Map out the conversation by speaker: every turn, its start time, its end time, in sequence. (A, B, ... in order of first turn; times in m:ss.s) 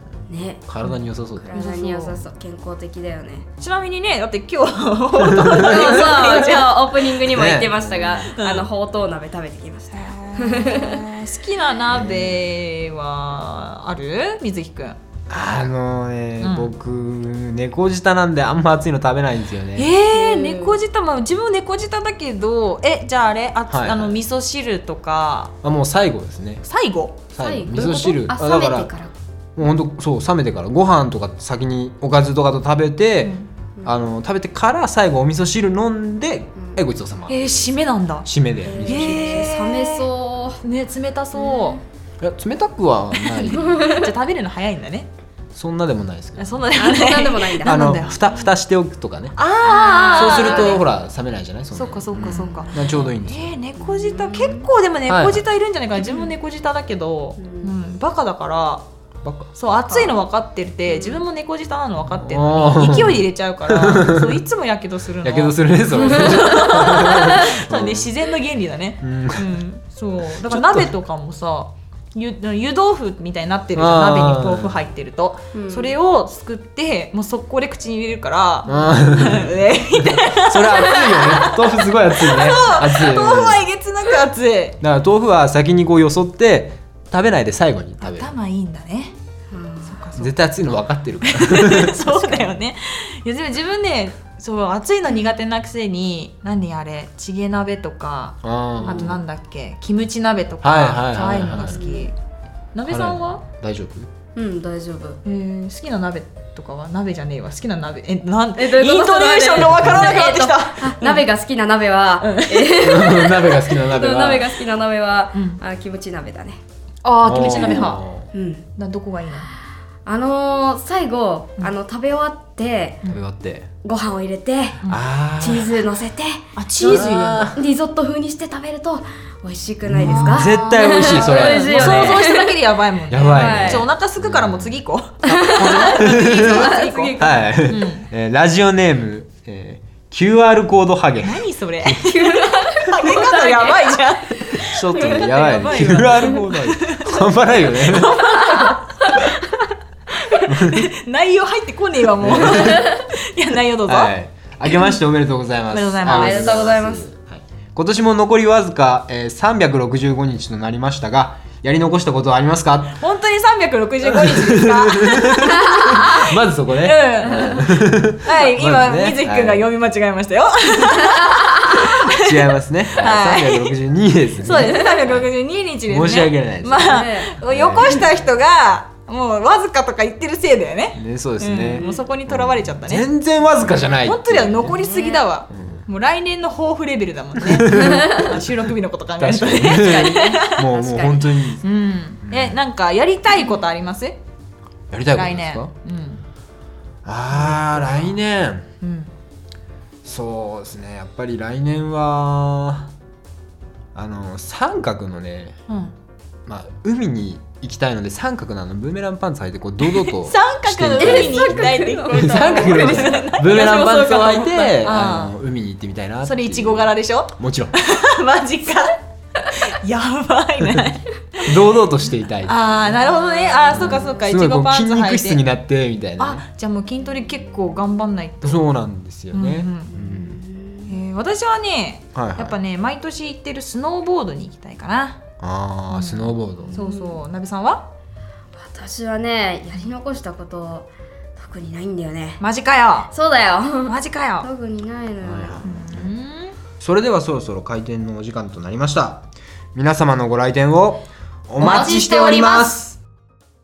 0:00.3-0:00.7 A
0:00.7-0:01.5 B
0:01.4-0:03.5 A
0:01.5-0:02.2 C
0:03.6-0:06.9 C
0:05.1-0:06.5 B
0:05.5-0:11.0 A
0:07.2-0:08.4 B
0:08.4-0:08.7 C
0:09.9-0:15.0 C
0:11.9-0:12.4 B
0:15.3-0:19.9 B
0:16.4-0:16.7 C
0:19.8-0:25.5 C
0:20.1-0:20.8 A
0:23.7-0:24.2 B
0:25.6-0:26.6 B
0:26.6-0:28.2 C
0:27.4-0:28.9 B
0:27.4-0:29.1 A
0:29.6-0:37.6 B
0:33.2-0:33.5 C
0:36.6-0:36.8 A
0:37.3-0:38.3 C
0:38.2-0:39.5 B
0:38.6-0:40.6 A
0:38.8-0:40.1 C
0:40.6-0:41.8 C
0:41.4-0:41.8 A
0:42.2-0:43.8 B
0:43.3-0:45.1 C
0:43.4-0:44.1 A
0:45.5-0:46.6 B
0:46.4-0:48.2 C
0:46.7-0:47.8 A
0:47.6-0:49.4 B
0:49.4-0:50.8 C
0:49.6-0:50.9 A
0:50.1-0:53.6 B
0:51.7-0:58.8 C
0:52.2-0:53.1 A
0:53.8-0:54.7 A
0:55.1-0:55.4 B
0:56.0-0:56.3 A
0:57.4-0:57.7 A
0:59.2-0:59.5 B
0:59.6-1:24.8 C
0:59.9-1:00.2 A
1:00.9-1:01.2 A
1:02.1-1:04.4 B
1:05.2-1:08.1 B
1:06.0-1:07.4 A
1:09.0-1:09.6 B
1:10.4-1:10.9 B
1:13.8-1:14.8 B
1:15.5-1:16.0 A
1:18.6-1:19.5 B
1:18.7-1:19.0 A
1:20.3-1:23.6 B
1:24.8-1:28.3 B
1:28.0-1:29.2 C
1:29.5-1:30.0 A
1:29.8-1:30.3 C
1:30.2-1:32.4 B
1:31.2-1:42.1 C
1:38.4-1:39.2 B
1:38.8-1:39.2 A
1:40.6-1:41.8 B
1:41.5-1:42.1 A
1:42.7-1:43.4 C
1:42.9-1:44.1 B
1:44.4-1:45.2 A
1:45.2-1:51.2 C
1:48.6-1:56.6 A
1:52.2-1:52.7 C
1:52.8-1:54.5 B
1:57.0-1:58.0 C
1:57.2-1:58.3 B
1:57.4-1:58.7 A
1:58.8-1:59.5 C
2:00.1-2:03.0 A
2:03.1-2:03.7 B
2:03.8-2:12.6 A
2:04.9-2:05.8 B
2:06.6-2:07.5 C
2:06.8-2:07.6 B
2:09.9-2:12.2 B
2:10.0-2:18.1 C
2:13.1-2:22.1 B
2:13.2-2:13.9 A
2:15.3-2:17.5 A
2:21.2-2:29.2 C
2:22.1-2:25.3 A
2:24.7-2:28.3 B
2:28.4-2:28.8 A
2:30.1-2:34.2 C
2:30.5-2:30.9 B
2:32.2-2:32.8 B
2:32.6-2:33.0 A
2:33.9-2:43.0 B
2:35.7-2:36.6 C
2:36.1-2:37.1 A
2:43.0-2:53.8 C
2:44.0-2:49.7 B
2:51.1-2:51.8 A
2:52.1-2:55.2 B
2:54.4-3:03.1 C
2:54.5-2:55.0 A
2:55.9-2:58.1 B
2:56.8-2:57.4 A
3:01.0-3:04.8 B
3:01.8-3:02.0 A
3:04.0-3:10.6 C
3:04.7-3:05.3 A
3:05.5-3:05.8 B
3:07.4-3:08.4 B
3:07.7-3:08.4 A
3:09.2-3:11.6 B
3:09.6-3:11.5 A
3:11.6-3:14.2 C
3:12.2-3:12.6 B
3:14.9-3:15.7 B
3:15.1-3:16.2 C
3:17.0-3:18.7 B
3:18.8-3:19.1 C
3:20.0-3:22.9 B
3:24.0-3:25.6 B
3:25.7-3:25.9 C
3:26.5-3:37.7 B
3:29.8-3:35.4 C
3:31.0-3:34.3 A
3:36.2-3:39.0 C
3:39.5-3:41.1 C
3:41.4-3:42.9 B
3:42.4-3:45.4 C
3:43.1-3:44.1 A
3:43.7-3:46.4 B
3:46.2-3:48.7 C
3:48.4-3:50.4 B
3:49.3-3:50.0 C
3:49.9-3:51.0 A
3:50.9-3:55.2 C
3:52.1-3:52.6 B
3:55.4-3:56.8 B
3:55.9-3:57.9 C
3:56.7-3:57.2 A
3:58.6-4:02.4 A
4:02.4-4:03.1 C
4:03.1-4:05.7 A
4:03.8-4:04.5 C
4:05.2-4:06.1 B
4:05.6-4:06.6 C
4:06.8-4:13.0 B
4:11.6-4:12.2 C
4:11.6-4:12.8 A